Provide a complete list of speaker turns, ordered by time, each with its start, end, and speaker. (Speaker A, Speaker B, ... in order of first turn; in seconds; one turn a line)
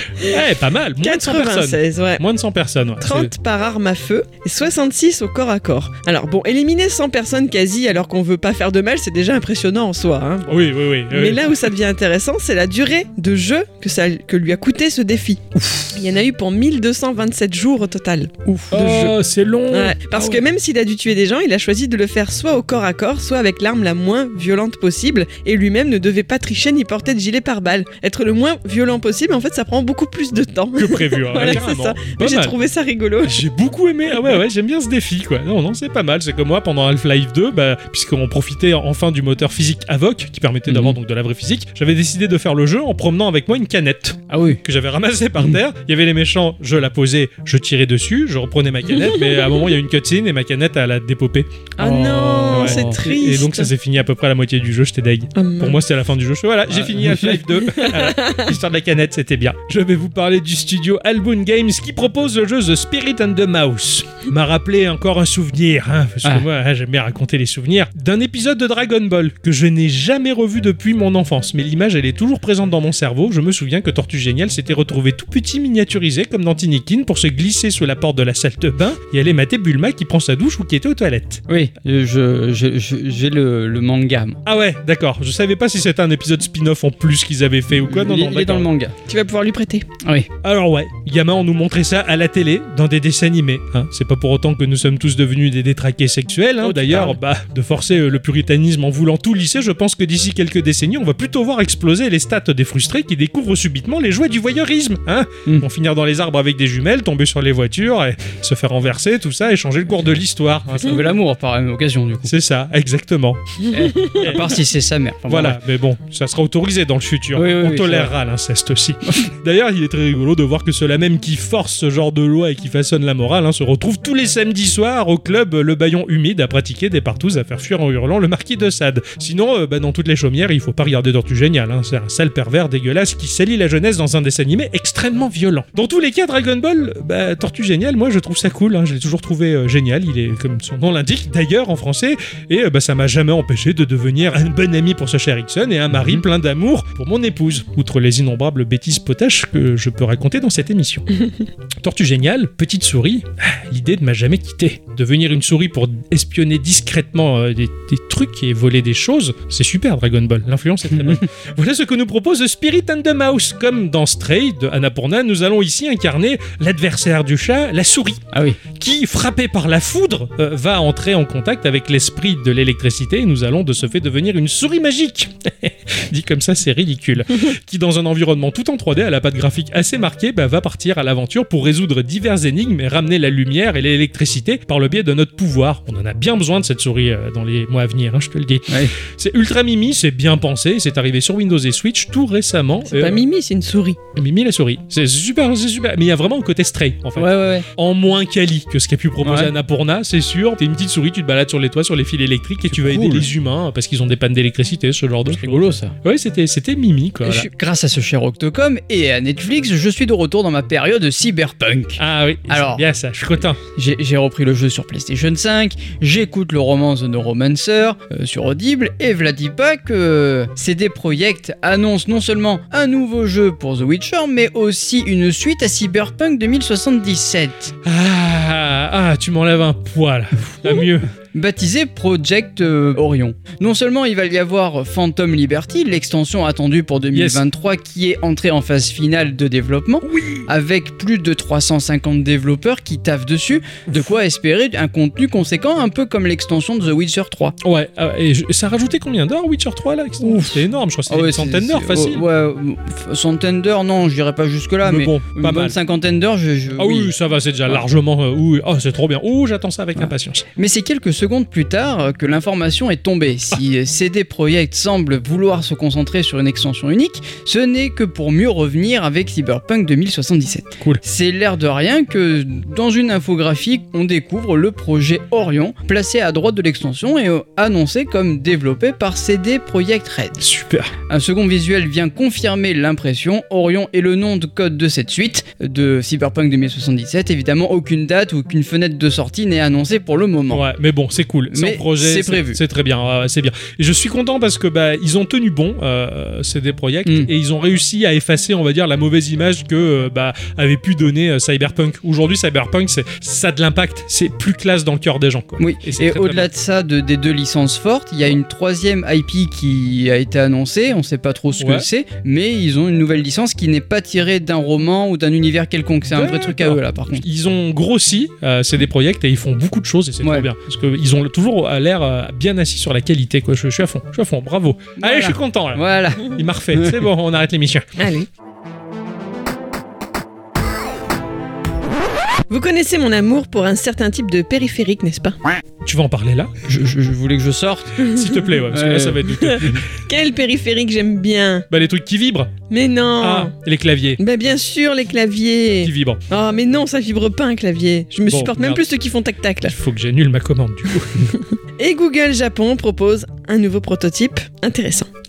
Speaker A: 0.2-3.3
Speaker B: 1.0-2.2
Speaker B: 3.0-10.5
Speaker A: 10.5-11.7
Speaker B: 11.1-19.1
Speaker C: 18.5-18.7
Speaker A: 18.7-20.4
Speaker B: 19.7-33.4
Speaker A: 30.8-32.5
Speaker A: 33.2-51.5
Speaker C: 40.7-41.0
Speaker C: 44.3-44.6
Speaker B: 51.8-53.7
Speaker C: 51.8-53.0
Speaker A: 52.1-81.4
Speaker B: 55.3-55.8
Speaker C: 56.7-57.4
Speaker B: 57.6-58.5
Speaker C: 81.5-84.4
Speaker A: 84.4-88.7
Speaker C: 87.8-88.9
Speaker B: 89.1-89.8
Speaker C: 90.0-90.3
Speaker A: 90.4-111.1
Speaker C: 96.6-97.2
Speaker C: 110.8-112.3
Speaker A: 112.2-114.5
Speaker C: 113.7-115.6
Speaker A: 115.3-151.1
Speaker C: 117.3-118.1
Speaker C: 145.9-146.2
Speaker A: 151.8-193.2
Speaker C: 160.9-161.2
Speaker C: 168.3-168.6
Speaker C: 188.7-188.9
Speaker B: 192.9-194.0
Speaker A: 194.2-207.5
Speaker C: 197.2-197.7
Speaker C: 199.2-199.5
Speaker C: 202.7-203.3
Speaker C: 205.3-205.9
Speaker C: 207.3-212.8
Speaker A: 212.0-213.6
Speaker C: 213.7-227.7
Speaker A: 227.8-231.1
Speaker C: 231.3-247.6
Speaker A: 237.1-237.4
Speaker A: 240.0-240.5
Speaker A: 247.6-252.2
Speaker C: 250.2-257.1
Speaker A: 254.8-255.8
Speaker A: 256.8-260.4
Speaker C: 260.0-280.4
Speaker A: 280.4-280.9
Speaker C: 281.1-290.6
Speaker A: 290.5-306.5
Speaker C: 291.5-292.6
Speaker C: 297.0-297.3
Speaker C: 305.6-317.2
Speaker A: 311.6-311.9
Speaker A: 316.1-327.9
Speaker C: 320.2-320.5
Speaker C: 325.0-327.1
Speaker B: 328.0-328.3
Speaker B: 332.5-335.4
Speaker A: 335.8-336.5
Speaker C: 336.7-338.0
Speaker B: 338.0-338.3
Speaker A: 338.1-339.9
Speaker C: 338.7-339.8
Speaker B: 339.4-341.6
Speaker A: 341.7-342.5
Speaker B: 342.7-343.5
Speaker A: 343.2-344.2
Speaker B: 344.2-349.7
Speaker A: 345.8-346.2
Speaker A: 348.3-348.8
Speaker A: 349.6-351.3
Speaker B: 351.3-355.1